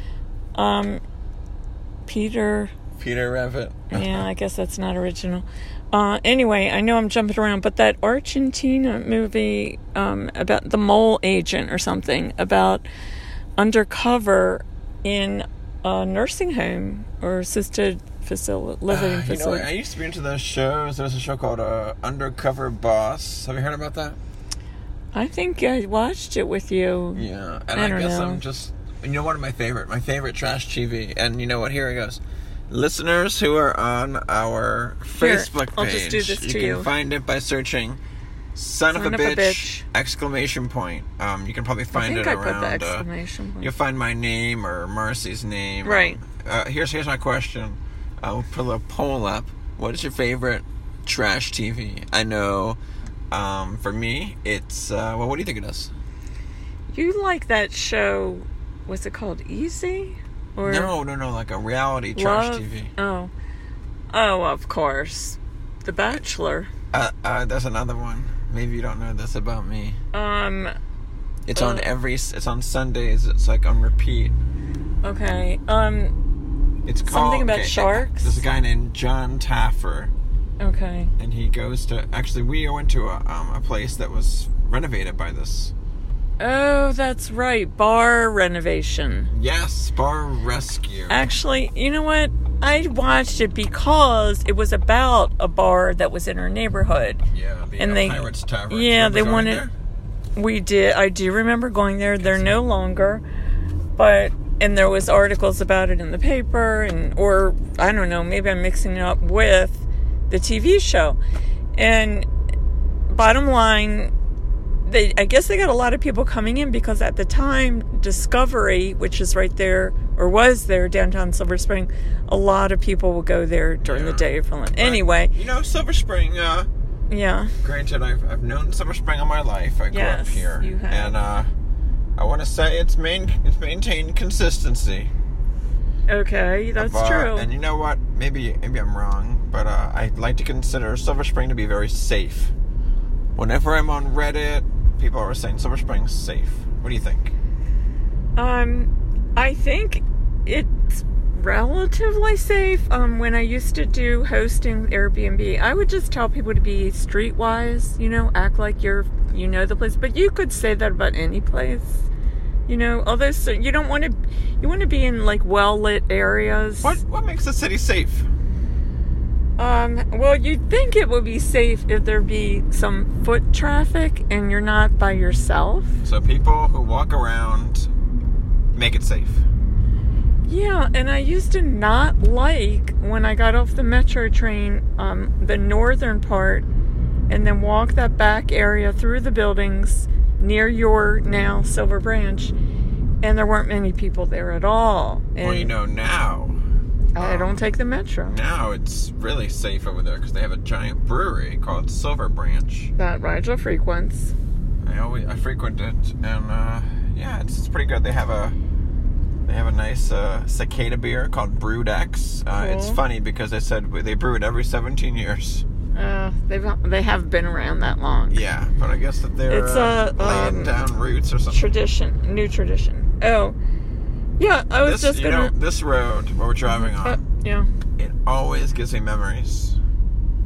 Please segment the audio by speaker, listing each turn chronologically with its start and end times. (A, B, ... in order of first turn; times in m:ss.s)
0:00.5-0:01.0 A
0:02.0-0:02.7 A
0:02.9-0:04.2 B
0:03.9-0:12.8 A
0:13.6-0:19.7 A
0:18.9-0:24.2 B
0:25.1-0:28.4 A
0:27.1-0:38.0 B
0:35.1-0:36.9 A
0:38.6-0:43.0 B
0:38.9-0:39.8 A
0:41.9-0:43.7 A
0:43.6-0:52.8 B
0:45.8-0:46.2 A
0:53.3-0:55.9 B
0:56.9-1:00.9 A
1:00.6-1:02.9 B
1:02.2-1:03.3 A
1:04.1-1:06.7 A
1:06.9-1:10.0 B
1:10.1-1:10.7 A
1:11.4-1:14.3 B
1:11.5-1:11.9 A
1:15.0-1:16.1 A
1:16.8-1:20.1 B
1:17.0-1:18.4 A
1:20.6-1:21.1 A
1:21.2-1:25.7 B
1:26.4-1:29.3 A
1:29.3-1:31.3 B
1:31.1-1:37.2 A
1:37.3-1:39.7 B
1:37.8-1:39.6 A
1:40.4-1:43.2 A
1:42.2-1:42.5 B
1:44.0-1:51.2 A
1:51.8-1:52.3 A
1:53.1-1:54.1 A
1:54.8-2:05.3 A
2:03.8-2:06.7 B
2:07.1-2:07.5 A
2:07.6-2:11.5 B
2:09.9-2:11.2 A
2:12.2-2:15.1 B
2:16.1-2:17.5 A
2:16.8-2:22.5 B
2:23.4-2:27.3 B
2:28.4-2:42.1 A
2:42.7-2:47.0 A
2:46.8-2:48.3 B
2:49.6-2:56.0 A
2:56.0-2:57.9 B
2:58.7-2:59.4 B
3:00.4-3:06.7 A
3:07.3-3:12.5 A
3:13.2-3:15.7 A
3:15.4-3:16.6 B
3:17.1-3:18.4 A
3:17.2-3:17.6 B
3:18.3-3:22.9 B
3:23.0-3:24.3 A
3:24.8-3:28.6 B
3:29.4-3:35.6 B
3:32.6-3:33.0 A
3:35.9-3:38.4 A
3:38.3-3:41.6 B
3:39.5-3:40.8 A
3:41.5-3:43.6 A
3:44.4-3:45.5 A
3:44.8-3:47.2 B
3:46.7-3:47.7 A
3:48.0-3:49.8 B